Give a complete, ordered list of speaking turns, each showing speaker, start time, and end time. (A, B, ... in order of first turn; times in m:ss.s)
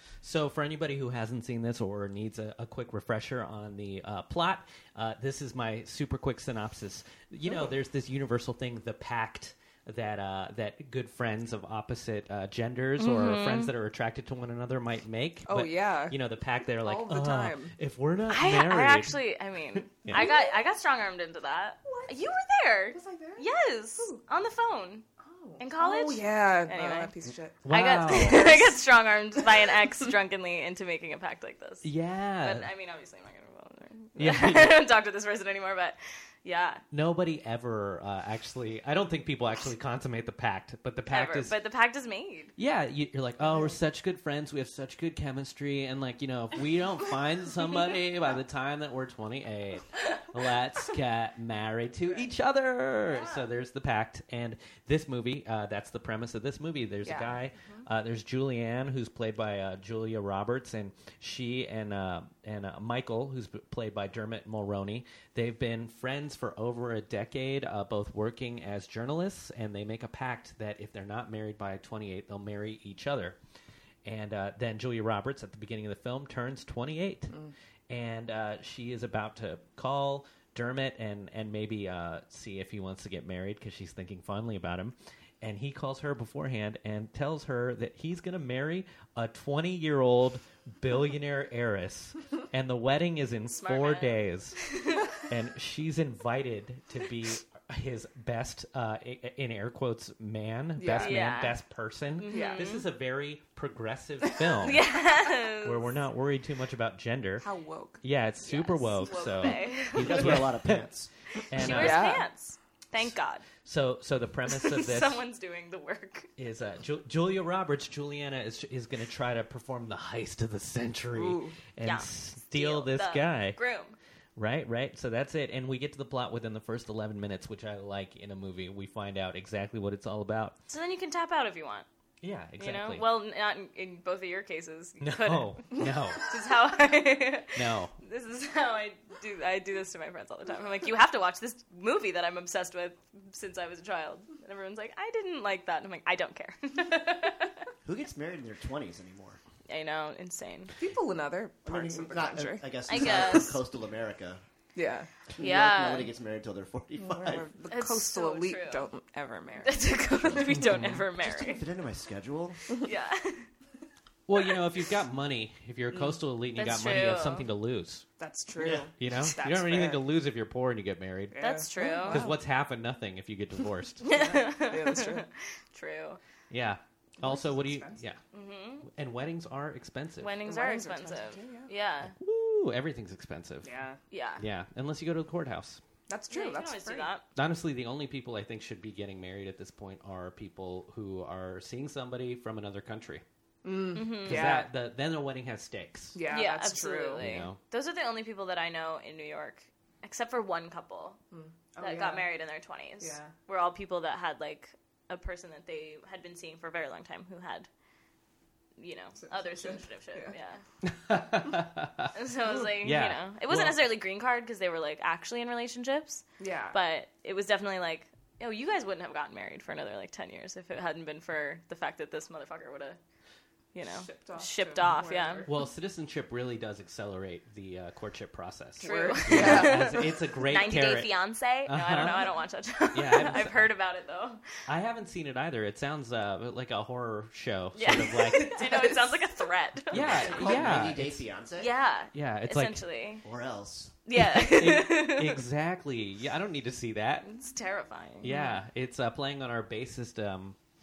0:00.2-0:19.2 A
0:13.0-0:13.7 B
0:15.5-0:17.7 C
0:18.3-0:25.0 B
0:19.8-0:20.3 A
0:20.1-0:20.5 C
0:21.8-0:22.2 C
0:22.9-0:23.5 C
0:25.2-0:27.6 C
0:25.6-0:27.1 B
0:27.6-0:28.7 A
0:27.6-0:31.9 B
0:28.2-0:28.7 C
0:29.4-0:29.9 C
0:31.8-0:32.7 A
0:32.4-0:36.8 B
0:34.2-0:34.8 A
0:36.9-0:41.5 A
0:41.1-0:42.5 B
0:42.6-1:13.4 A
0:43.4-0:43.8 C
0:57.0-0:57.7 C
1:14.0-1:17.3 A
1:17.9-1:44.8 A
1:33.5-1:35.1 B
1:40.8-1:41.2 C
1:41.0-1:41.6 B
1:42.2-1:42.8 B
1:42.3-1:42.7 C
1:44.6-1:45.8 B
1:45.6-1:47.5 A
1:47.4-1:48.0 C
1:48.0-1:50.9 A
1:48.4-1:50.4 B
1:49.9-1:51.1 D
1:51.5-1:52.2 A
1:51.5-1:53.4 B
1:51.6-1:52.2 C
1:53.6-1:55.2 A
1:54.5-1:56.3 B
1:56.4-2:03.6 A
2:01.1-2:01.5 C
2:01.8-2:04.0 B
2:04.4-2:10.6 A
2:10.7-2:11.8 B
2:12.2-2:13.0 A
2:12.6-2:27.6 B
2:15.0-2:16.2 A
2:17.5-2:18.0 A
2:27.8-2:29.4 D
2:29.7-2:30.7 B
2:30.8-2:33.4 C
2:31.6-2:34.4 D
2:32.9-2:33.6 B
2:34.7-2:35.1 C
2:35.3-2:37.5 D
2:35.4-2:36.1 B
2:37.0-2:39.8 C
2:37.7-2:38.9 B
2:39.6-2:41.6 B
2:40.2-2:40.4 D
2:40.6-2:41.0 A
2:41.2-2:42.6 D
2:42.8-2:43.5 B
2:44.3-2:48.1 A
2:46.5-2:47.4 B
2:48.2-2:50.0 C
2:48.6-2:48.9 D
2:48.9-2:51.4 A
2:51.3-2:52.4 C
2:51.4-2:52.3 B
2:52.0-2:54.0 A
2:54.0-2:56.2 B
2:54.0-2:55.2 C
2:56.5-2:58.2 A
2:57.2-2:58.0 C
2:58.3-2:58.9 B
2:58.8-3:00.4 A
3:00.2-3:02.1 B
3:00.4-3:01.7 C
3:02.1-3:03.7 A
3:03.6-3:04.0 C
3:04.1-3:04.4 B
3:04.4-3:05.8 A
3:06.1-3:07.1 C
3:06.3-3:07.2 B
3:07.3-3:13.2 A
3:13.6-3:14.7 C
3:13.9-3:14.5 B
3:14.2-3:16.2 A
3:16.1-3:17.3 C
3:16.3-3:21.2 B
3:17.2-3:17.6 A
3:21.3-3:22.3 C
3:21.8-3:27.7 B
3:23.0-3:23.3 C
3:28.8-3:30.6 B
3:29.2-3:30.3 C
3:30.8-3:33.8 A
3:32.1-3:43.0 B
3:36.4-3:36.8 C
3:43.7-3:45.5 B
3:43.8-3:45.5 C
3:45.4-3:51.1 A
3:48.8-3:50.1 C
3:48.8-3:54.4 B
3:51.6-3:52.3 A
3:52.9-3:53.7 A
3:54.7-3:58.6 A
3:57.7-4:00.6 B
3:58.1-3:59.3 C
3:59.9-4:01.2 A
3:59.9-4:01.7 D
4:01.6-4:03.2 B
4:02.1-4:02.8 A
4:03.2-4:03.9 D
4:04.0-4:05.4 B
4:04.2-4:07.3 A
4:07.2-4:08.3 B
4:08.2-4:10.6 A
4:08.2-4:08.6 C